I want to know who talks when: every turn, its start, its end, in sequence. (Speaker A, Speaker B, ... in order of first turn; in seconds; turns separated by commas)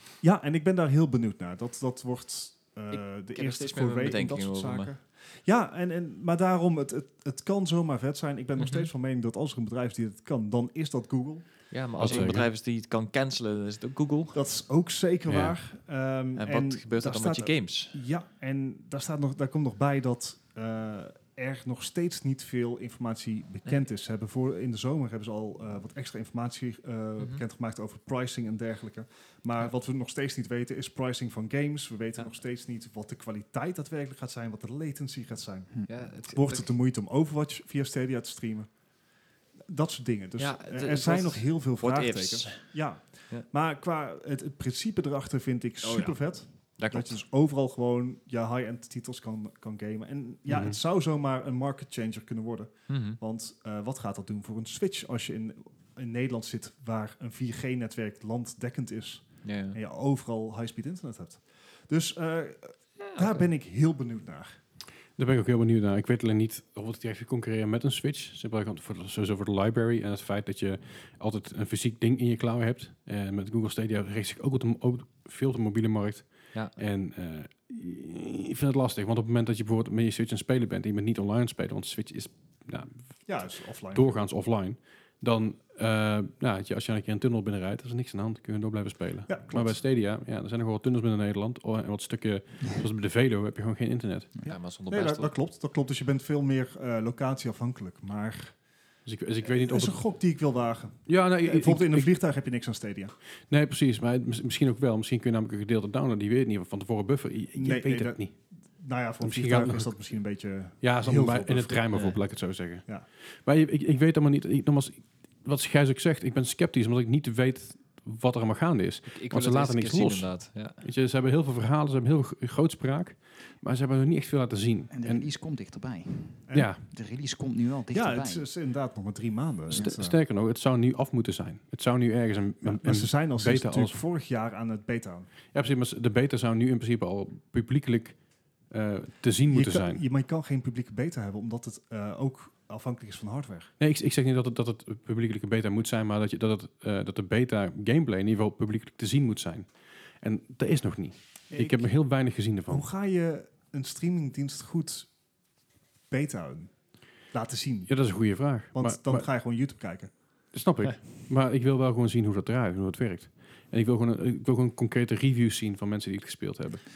Speaker A: 0.2-12.3, Speaker B: 2.9-4.9, Speaker B: 8.6-8.9, Speaker B: 11.7-14.4, Speaker C: 12.0-12.5, Speaker A: 14.3-38.7, Speaker C: 15.3-15.6, Speaker B: 16.4-17.9, Speaker B: 35.9-36.7, Speaker A: 39.7-64.5, Speaker B: 40.4-43.5, Speaker B: 45.8-47.2, Speaker C: 50.5-50.8, Speaker B: 52.9-53.2, Speaker B: 59.4-59.8, Speaker B: 63.1-63.5, Speaker C: 65.2-94.3, Speaker A: 83.2-84.2, Speaker A: 89.3-89.8, Speaker B: 94.4-95.3, Speaker A: 94.4-98.6, Speaker C: 99.0-100.0, Speaker A: 99.4-103.1, Speaker C: 101.1-102.1, Speaker C: 103.5-108.3, Speaker A: 107.5-112.1, Speaker C: 109.2-109.9, Speaker C: 110.8-125.3, Speaker B: 111.9-112.2, Speaker B: 119.1-120.8, Speaker D: 124.9-128.4, Speaker A: 126.5-126.7, Speaker C: 126.5-126.8, Speaker A: 127.9-130.2, Speaker C: 129.7-134.0, Speaker A: 132.6-135.3, Speaker C: 135.5-140.0, Speaker A: 139.5-143.7, Speaker C: 143.8-152.9, Speaker A: 151.5-152.0, Speaker A: 152.7-155.1, Speaker A: 156.1-158.2, Speaker C: 157.9-159.3, Speaker A: 158.7-160.1, Speaker C: 160.5-166.9